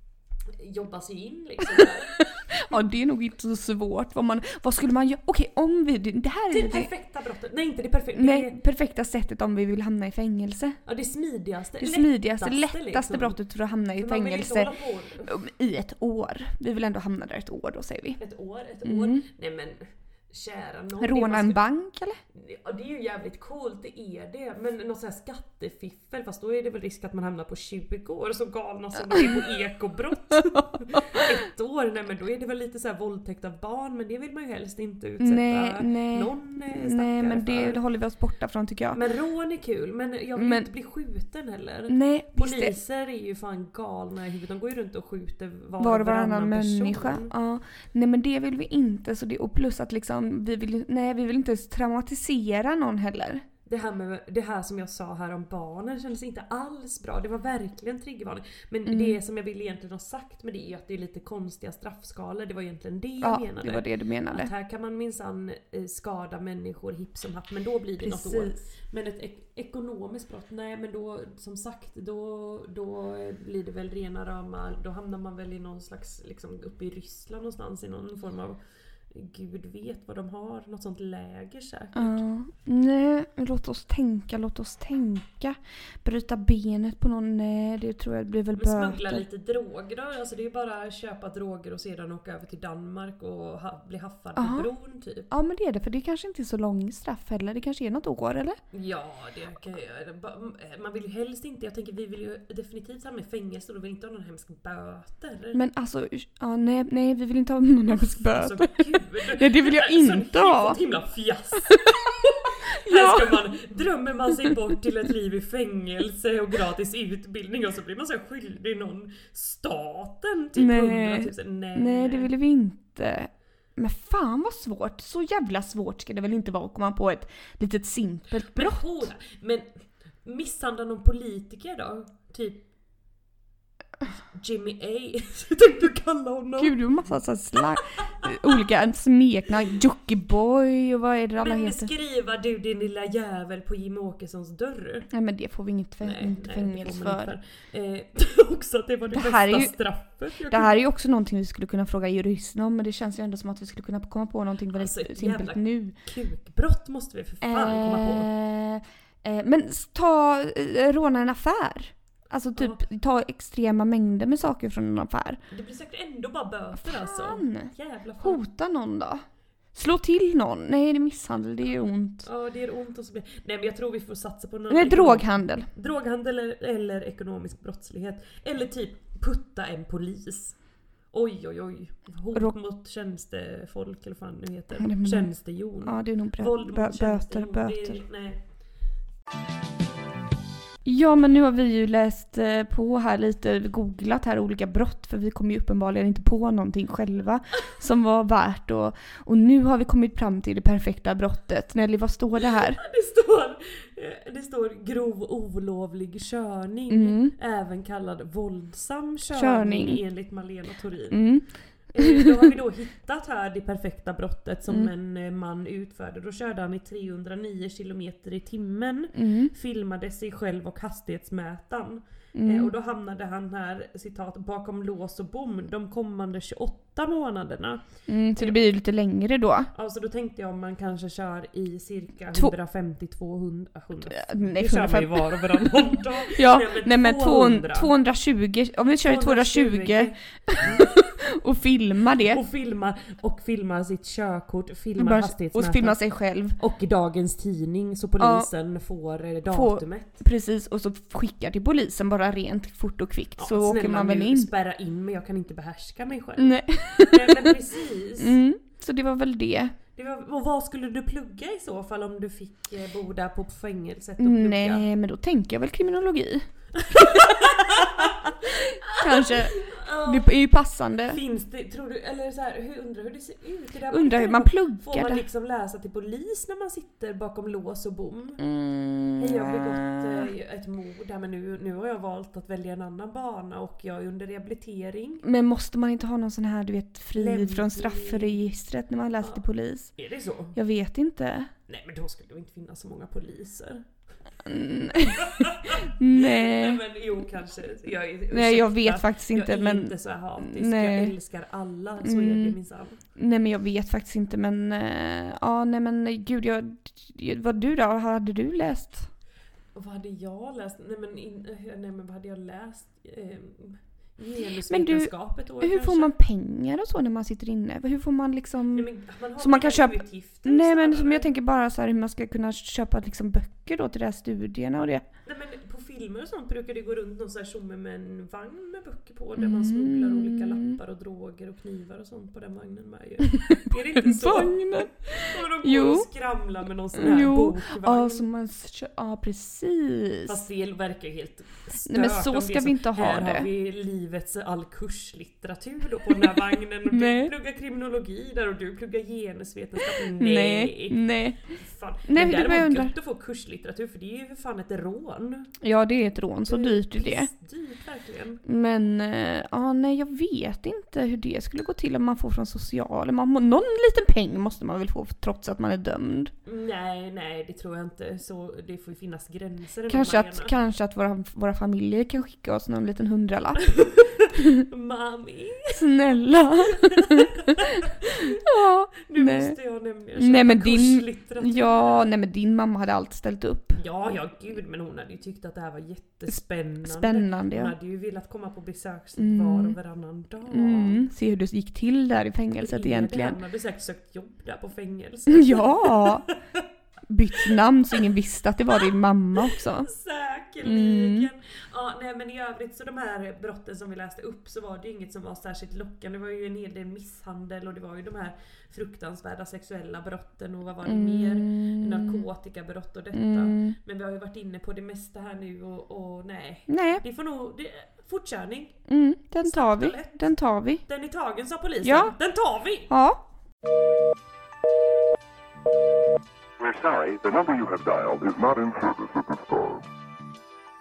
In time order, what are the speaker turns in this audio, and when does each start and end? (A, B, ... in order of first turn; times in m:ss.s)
0:00.5-0:02.2 A
0:01.8-0:06.9 B
0:06.5-0:08.6 A
0:08.2-0:10.8 B
0:10.8-0:13.4 A
0:11.8-0:14.7 B
0:14.0-0:15.3 A
0:15.3-0:18.2 B
0:18.2-0:21.6 A
0:18.8-0:19.2 B
0:21.0-0:22.2 B
0:22.3-0:37.8 A
0:35.2-0:39.0 B
0:38.9-0:47.3 A
0:40.4-0:40.7 B
0:41.9-0:42.8 B
0:45.8-0:53.4 B
0:53.6-1:22.2 A
0:58.9-0:59.2 B
1:03.2-1:04.5 B
1:08.0-1:08.6 B
1:21.9-1:29.2 B
1:28.6-1:35.3 A
1:34.4-1:34.7 B
1:35.3-1:38.6 B
1:38.7-1:45.6 A
1:45.5-1:50.8 B
1:48.1-1:51.8 A
1:51.7-1:52.3 B
1:52.4-2:02.3 A
1:52.8-1:53.4 B
2:00.6-2:09.1 B
2:08.5-2:09.6 A
2:10.2-2:12.6 A
2:14.3-2:16.8 A
2:16.6-2:21.9 B
2:21.4-2:25.1 A
2:25.1-2:27.3 B
2:26.0-2:30.7 A
2:29.1-2:29.8 B
2:30.5-2:36.0 B
2:34.7-2:38.3 A
2:37.4-2:45.4 B
2:42.6-2:42.8 A
2:45.5-2:48.4 A
2:46.8-2:49.2 B
2:49.7-2:52.3 B
2:52.2-3:00.6 A
2:54.7-2:55.7 B
3:01.1-3:08.4 A
3:04.8-3:05.3 B
3:05.8-3:08.0 B
3:10.8-3:22.8 B
3:22.4-3:31.2 A
3:26.9-3:27.3 B
3:29.3-3:30.0 B
3:31.1-3:31.4 B
3:31.9-3:47.8 A
3:32.0-3:32.5 B
3:39.1-3:39.5 B
3:42.3-3:42.7 B
3:48.1-3:49.7 B
3:48.4-3:48.7 A
3:49.7-3:57.9 A
3:54.1-4:02.4 B
3:59.0-4:00.9 A
4:02.3-4:06.0 A
4:05.0-4:06.6 B
4:06.6-4:10.2 A
4:08.2-4:08.5 B
4:09.5-4:14.5 B
4:13.4-4:18.4 A
4:16.4-4:17.5 B
4:18.2-4:19.7 B
4:19.9-4:24.8 A
4:24.2-4:31.2 B
4:26.8-4:30.3 A
4:31.1-4:38.4 A
4:33.9-4:35.2 B
4:38.4-4:40.3 B
4:39.2-4:45.2 A
4:45.2-4:49.9 B
4:47.2-4:48.4 A
4:50.0-4:50.6 A
4:50.5-4:51.5 B
4:51.7-4:53.8 A
4:54.4-4:56.8 B
4:55.0-5:03.0 A
4:58.3-5:01.1 B
5:02.0-5:02.6 B
5:03.2-5:09.1 B
5:09.7-5:16.1 A
5:14.7-5:25.0 B
5:18.7-5:21.3 A
5:25.2-5:38.2 A
5:29.4-5:30.8 B
5:33.5-5:36.1 B
5:36.9-5:40.4 B
5:40.3-5:55.5 A
5:41.8-5:43.5 B
5:46.9-5:47.3 B
5:50.2-5:51.4 B
5:52.1-5:52.9 B
5:55.6-5:57.3 B
5:56.5-5:58.4 A
5:58.4-6:06.3 B
6:06.4-6:10.5 A
6:09.9-6:13.6 B
6:13.6-6:15.8 A
6:15.7-6:17.6 B
6:16.7-6:18.4 A
6:18.3-6:19.6 B
6:19.0-6:22.1 A
6:20.2-6:23.8 B
6:23.8-6:31.0 A
6:26.8-6:27.7 B
6:29.2-6:29.8 B
6:30.5-6:33.4 B
6:32.6-6:36.3 A
6:35.3-6:36.2 B
6:37.1-6:39.9 B
6:39.8-6:58.8 A
6:40.6-6:41.3 B
6:50.8-6:52.3 B
6:53.1-6:53.8 B
6:56.7-6:57.0 B
6:58.9-7:00.8 B
6:59.4-7:00.3 A
7:00.8-7:02.9 A
7:01.8-7:02.1 B
7:02.9-7:03.2 B
7:06.6-7:09.8 C